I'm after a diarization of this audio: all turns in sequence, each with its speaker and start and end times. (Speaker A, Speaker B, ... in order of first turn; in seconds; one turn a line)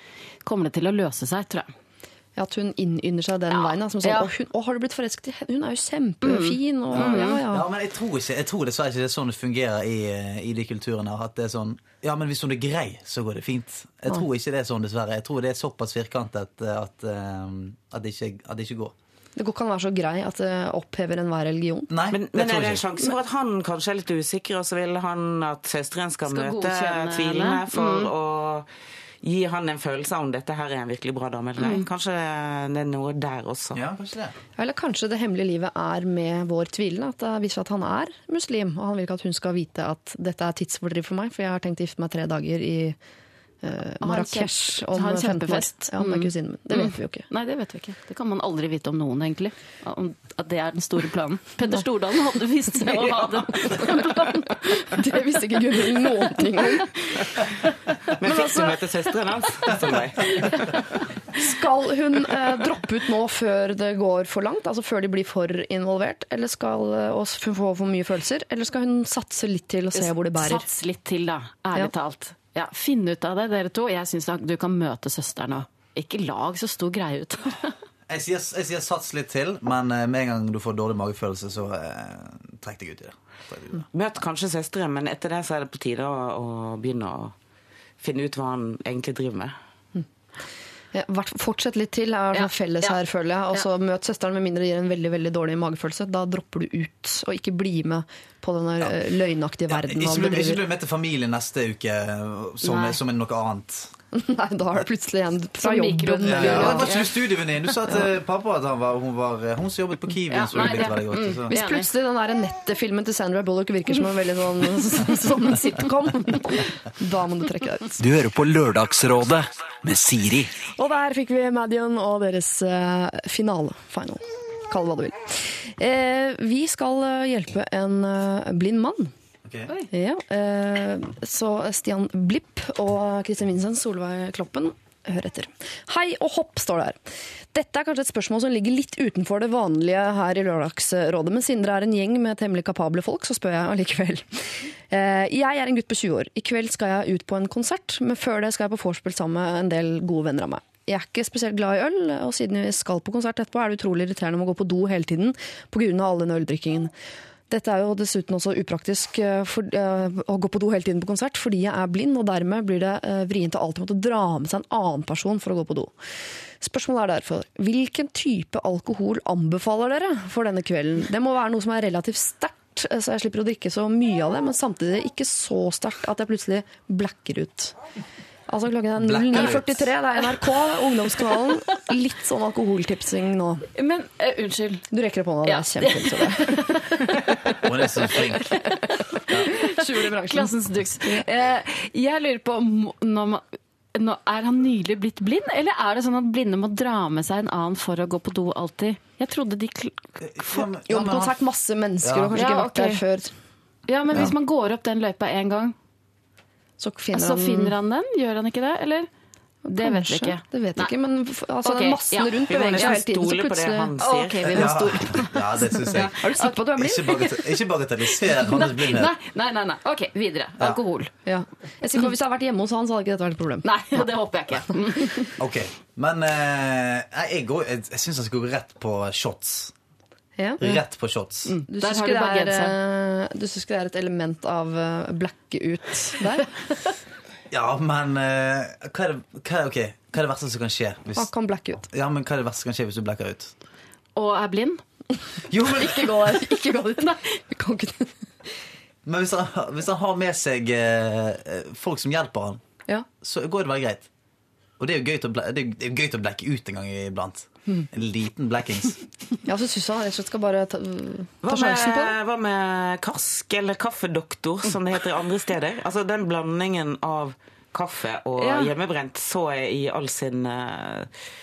Speaker A: 0.4-1.7
Speaker B: 2.4-7.7
Speaker A: 3.5-4.3
Speaker A: 6.2-7.4
Speaker C: 6.9-18.9
Speaker B: 19.4-21.9
Speaker C: 21.9-22.9
Speaker D: 22.1-28.7
Speaker A: 26.3-28.1
Speaker D: 29.2-33.8
Speaker A: 31.6-31.9
Speaker C: 33.7-34.4
Speaker B: 34.6-43.0
Speaker B: 43.6-47.3
Speaker A: 44.0-55.0
Speaker B: 54.3-56.9
Speaker A: 55.9-57.4
Speaker D: 58.2-60.3
Speaker A: 58.3-58.7
Speaker A: 60.3-61.0
Speaker B: 61.4-70.7
Speaker A: 70.0-77.8
Speaker C: 78.1-83.8
Speaker D: 83.9-87.3
Speaker D: 88.0-89.6
Speaker B: 90.9-100.6
Speaker A: 92.3-93.0
Speaker C: 99.7-103.9
Speaker A: 102.6-103.0
Speaker B: 104.1-106.9
Speaker A: 105.6-107.2
Speaker C: 106.2-111.5
Speaker A: 110.3-111.9
Speaker B: 111.5-118.0
Speaker E: 118.0-120.5
Speaker B: 120.8-129.1
Speaker C: 129.4-129.7
Speaker B: 129.9-137.0
Speaker B: 137.5-156.9
Speaker B: 157.5-165.9
Speaker B: 166.6-177.8
Speaker B: 178.5-183.7
Speaker C: 179.0-179.9
Speaker A: 183.8-184.9
Speaker B: 184.9-187.1
Speaker A: 185.5-200.7
Speaker C: 187.6-188.6
Speaker B: 189.5-190.5
Speaker C: 200.2-201.4
Speaker B: 200.9-203.3
Speaker C: 202.0-202.4
Speaker A: 202.3-203.0
Speaker A: 203.9-205.8
Speaker B: 206.8-207.8
Speaker A: 207.1-209.1
Speaker A: 209.7-210.9
Speaker B: 209.7-217.3
Speaker A: 211.6-213.0
Speaker D: 212.5-214.8
Speaker A: 214.1-216.6
Speaker C: 214.6-219.2
Speaker A: 218.2-221.1
Speaker B: 221.2-224.1
Speaker A: 223.6-225.4
Speaker C: 225.4-229.7
Speaker B: 230.4-230.8
Speaker C: 230.6-231.6
Speaker A: 231.4-232.8
Speaker B: 231.7-236.6
Speaker C: 237.5-241.3
Speaker B: 241.2-241.8
Speaker C: 241.8-243.5
Speaker A: 244.2-244.8
Speaker C: 245.5-246.3
Speaker B: 245.6-248.5
Speaker C: 249.1-252.6
Speaker C: 253.2-254.1
Speaker C: 254.8-259.1
Speaker B: 259.4-262.1
Speaker D: 261.4-271.1
Speaker A: 268.4-268.7